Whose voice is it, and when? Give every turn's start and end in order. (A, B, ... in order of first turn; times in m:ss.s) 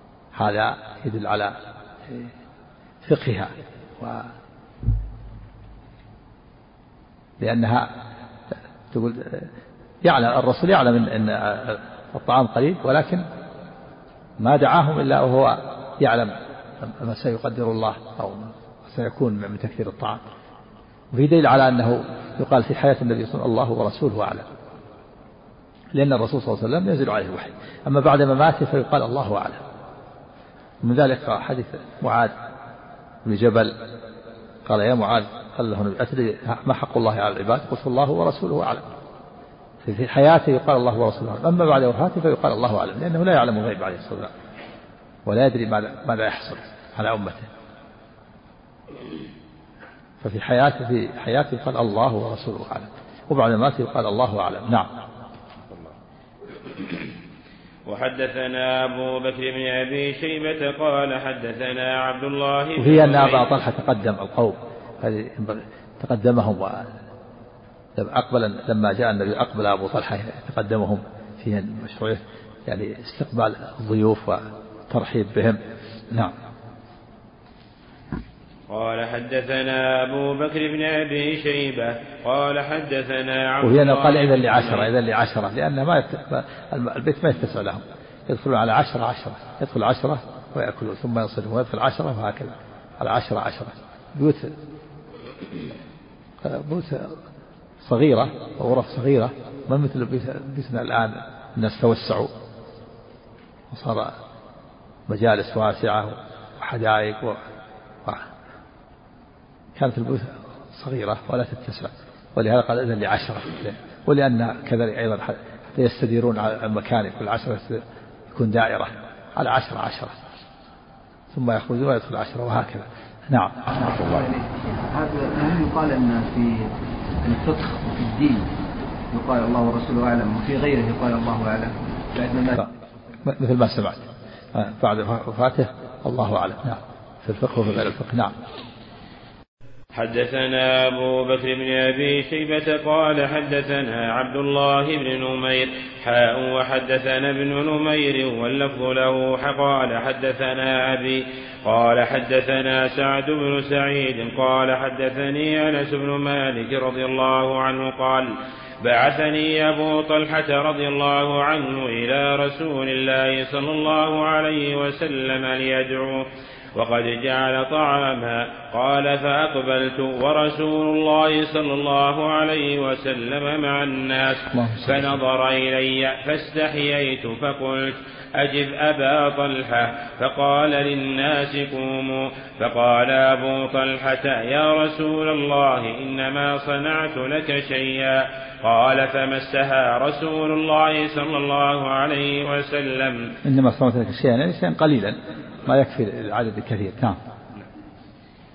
0:00.3-0:01.5 A
0:03.0-0:04.3 A
0:07.4-0:07.9 A
0:08.9-0:09.5 A
0:10.0-0:13.2 A
0:14.4-0:20.2 A
0:21.1-0:24.4 A
0:25.9-0:29.6 A
0:30.8-0:32.3 A
0:33.2-0:33.8 A
0:34.6-0:38.8 A
0:39.8-0:44.3 A
0:45.2-0:47.5 A
0:50.2-0:54.9 A
0:57.9-1:03.5 B
1:02.8-1:06.8 A
1:08.0-1:15.6 A
1:18.7-1:24.9 B
1:23.6-1:34.5 A
1:36.4-1:37.2 A
1:37.8-1:42.3 A
1:43.7-1:44.1 A
1:45.1-1:47.4 A
1:49.8-1:57.8 A
1:58.3-2:00.1 A
2:01.3-2:03.9 A
2:03.7-2:06.7 C
2:07.2-2:08.5 C
2:09.1-2:12.6 C
2:13.2-2:18.4 A
2:19.9-2:38.3 B
2:38.8-3:13.3 B
2:54.5-2:55.1 A
3:13.4-3:17.2 A